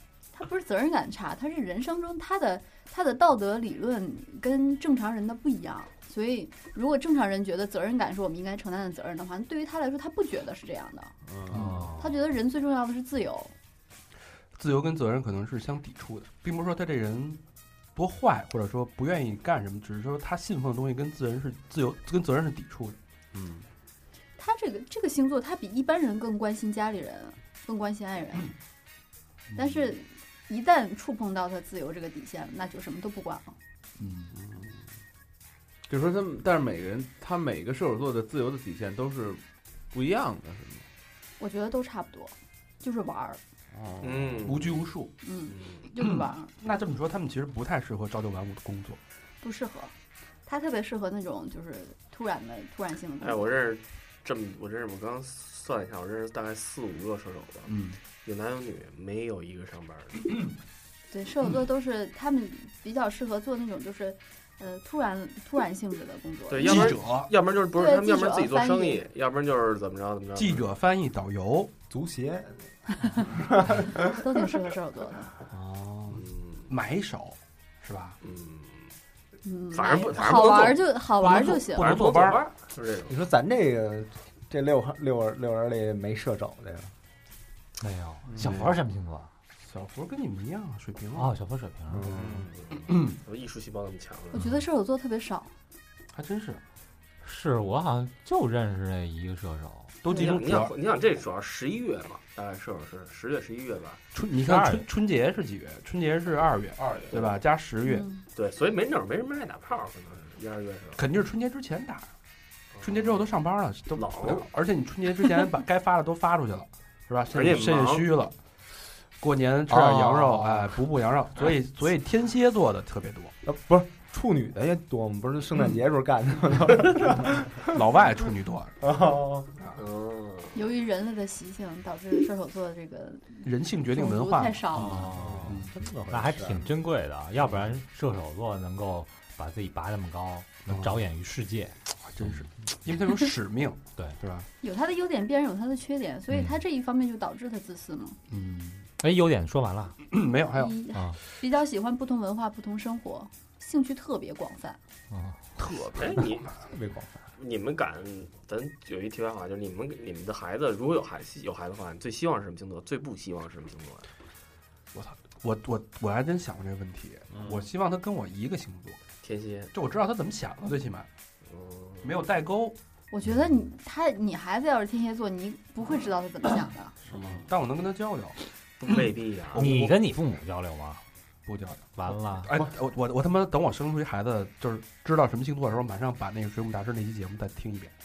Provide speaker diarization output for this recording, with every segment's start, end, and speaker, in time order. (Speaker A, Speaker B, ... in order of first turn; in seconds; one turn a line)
Speaker A: 0.4-11.1
Speaker B: 11.3-11.8
Speaker C: 11.5-11.9
Speaker D: 11.6-11.9
Speaker A: 11.8-13.5
Speaker C: 14.6-17.4
Speaker C: 18.0-23.0
Speaker B: 23.3-23.7
Speaker A: 24.4-28.5
Speaker A: 29.6-33.6
Speaker C: 34.0-34.3
Speaker B: 34.3-34.8
Speaker B: 35.9-40.9
Speaker A: 41.4-43.4
Speaker B: 43.7-44.6
Speaker E: 44.0-44.8
Speaker C: 44.5-45.1
Speaker A: 45.2-46.5
Speaker E: 45.5-45.8
Speaker C: 46.1-49.0
Speaker A: 49.4-49.9
Speaker A: 50.5-53.5
Speaker E: 53.2-60.3
Speaker C: 57.7-58.0
Speaker A: 61.1-67.0
Speaker E: 66.5-70.7
Speaker C: 66.6-67.3
Speaker A: 67.8-69.0
Speaker C: 70.4-71.7
Speaker F: 71.9-74.2
Speaker A: 73.0-75.3
Speaker C: 75.5-78.2
Speaker E: 76.2-76.7
Speaker E: 78.2-78.9
Speaker A: 79.5-81.9
Speaker E: 79.7-80.9
Speaker C: 81.2-82.4
Speaker E: 81.6-83.2
Speaker F: 83.1-86.9
Speaker D: 87.8-89.3
Speaker B: 88.3-88.6
Speaker C: 88.4-88.8
Speaker C: 89.7-91.3
Speaker D: 91.2-92.1
Speaker F: 91.9-92.5
Speaker B: 92.0-92.6
Speaker E: 92.7-94.3
Speaker C: 92.9-93.2
Speaker D: 94.3-94.6
Speaker A: 94.3-95.5
Speaker C: 96.1-96.6
Speaker D: 97.2-100.0
Speaker C: 100.0-100.7
Speaker E: 100.1-104.0
Speaker C: 104.1-108.1
Speaker D: 104.4-104.9
Speaker B: 106.8-107.1
Speaker A: 107.8-108.2
Speaker E: 108.4-111.0
Speaker C: 111.0-112.1
Speaker E: 112.8-113.2
Speaker C: 112.8-118.3
Speaker E: 114.0-114.5
Speaker E: 117.3-118.1
Speaker C: 119.2-123.3
Speaker F: 119.7-120.8
Speaker F: 123.4-127.7
Speaker C: 127.7-128.8
Speaker F: 128.8-129.5
Speaker E: 129.8-130.6
Speaker A: 130.5-135.1
Speaker C: 133.4-134.8
Speaker D: 134.8-142.4
Speaker F: 135.2-136.7
Speaker C: 135.4-135.7
Speaker C: 140.7-141.0
Speaker C: 141.9-144.5
Speaker A: 144.6-148.2
Speaker D: 146.3-146.6
Speaker C: 148.3-148.9
Speaker D: 149.0-150.0
Speaker C: 150.0-150.8
Speaker A: 150.6-154.8
Speaker D: 150.9-151.2
Speaker D: 155.1-155.4
Speaker B: 155.7-156.2
Speaker E: 156.0-156.5
Speaker F: 156.7-157.2
Speaker E: 157.4-164.1
Speaker C: 164.9-169.0
Speaker B: 167.3-167.7
Speaker E: 169.2-169.7
Speaker C: 169.7-171.1
Speaker E: 171.5-172.2
Speaker C: 172.0-172.8
Speaker A: 173.1-176.9
Speaker B: 177.1-177.5
Speaker C: 177.1-178.4
Speaker E: 178.8-179.9
Speaker C: 179.6-179.9
Speaker D: 179.6-181.0
Speaker C: 181.5-187.9
Speaker D: 182.0-182.5